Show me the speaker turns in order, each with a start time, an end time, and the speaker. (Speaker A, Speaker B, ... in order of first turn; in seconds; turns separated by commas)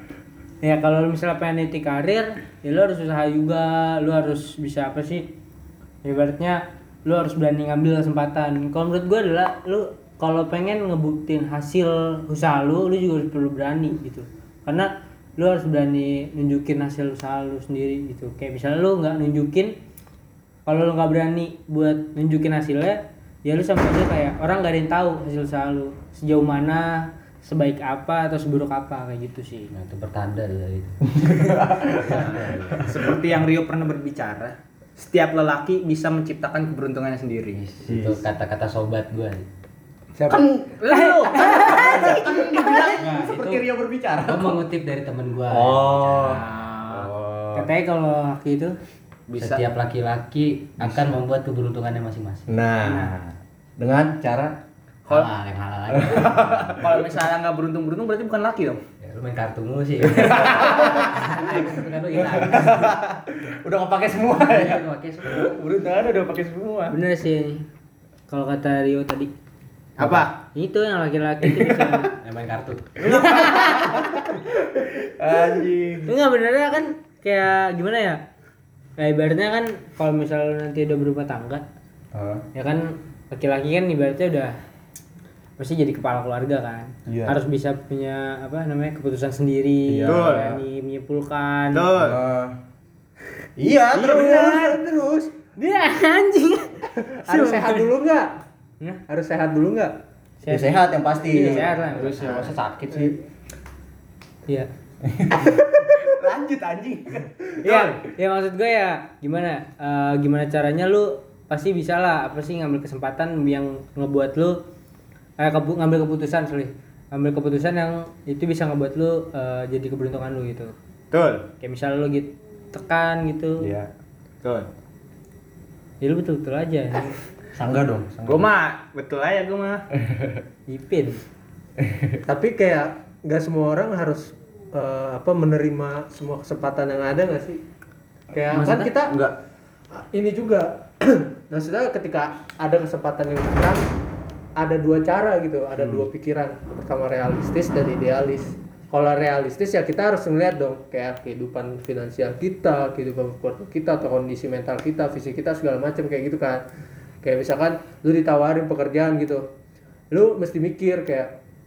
Speaker A: 0.6-5.3, Speaker A: 6.0-19.8, Speaker A: 20.7-29.7, Speaker B: 29.7-31.3, Speaker C: 31.1-33.0, Speaker B: 32.0-32.9, Speaker D: 32.8-37.8, Speaker B: 37.7-39.5, Speaker C: 37.9-38.2, Speaker D: 40.2-42.2, Speaker C: 40.3-44.6, Speaker A: 40.9-43.6, Speaker B: 44.2-46.4, Speaker C: 45.5-47.7, Speaker D: 46.2-47.1, Speaker A: 47.5-48.8, Speaker D: 49.3-49.6, Speaker B: 49.3-52.6, Speaker C: 50.8-51.1, Speaker C: 52.5-53.2, Speaker C: 53.8-54.6, Speaker B: 55.1-56.8, Speaker C: 55.9-57.0, Speaker D: 56.8-58.8, Speaker B: 59.0-63.0, Speaker C: 60.1-61.8, Speaker C: 62.3-67.0, Speaker B: 64.4-65.6, Speaker A: 66.9-67.7, Speaker A: 68.3-69.3, Speaker D: 70.0-70.3, Speaker A: 70.3-72.2, Speaker C: 71.4-72.1, Speaker B: 72.2-73.0, Speaker C: 73.0-76.1, Speaker A: 73.0-74.1, Speaker A: 76.1-78.2, Speaker A: 79.0-81.6, Speaker C: 82.1-82.5, Speaker A: 82.5-84.6, Speaker A: 85.6-91.9, Speaker C: 87.1-87.4, Speaker C: 89.9-90.6, Speaker D: 90.1-90.6, Speaker D: 91.7-92.2, Speaker C: 92.0-92.6, Speaker C: 93.6-94.8, Speaker E: 94.0-95.3, Speaker A: 94.0-94.6, Speaker A: 95.6-97.9, Speaker E: 97.0-98.3, Speaker E: 99.1-100.0, Speaker A: 100.4-102.6, Speaker C: 100.5-101.7, Speaker D: 101.9-103.2, Speaker C: 105.0-107.3, Speaker A: 107.6-114.6, Speaker D: 107.6-107.9, Speaker A: 115.4-120.8, Speaker D: 121.1-121.5, Speaker A: 121.6-123.7, Speaker C: 123.6-123.9, Speaker A: 126.0-127.2, Speaker C: 127.5-128.5, Speaker D: 128.2-129.9, Speaker C: 130.1-130.4, Speaker A: 130.7-131.2, Speaker C: 131.8-132.2, Speaker E: 132.3-137.6, Speaker E: 138.3-139.2, Speaker C: 138.5-139.3, Speaker E: 139.9-143.9, Speaker E: 144.6-156.6, Speaker C: 145.8-146.1, Speaker E: 157.2-159.5, Speaker E: 160.1-161.3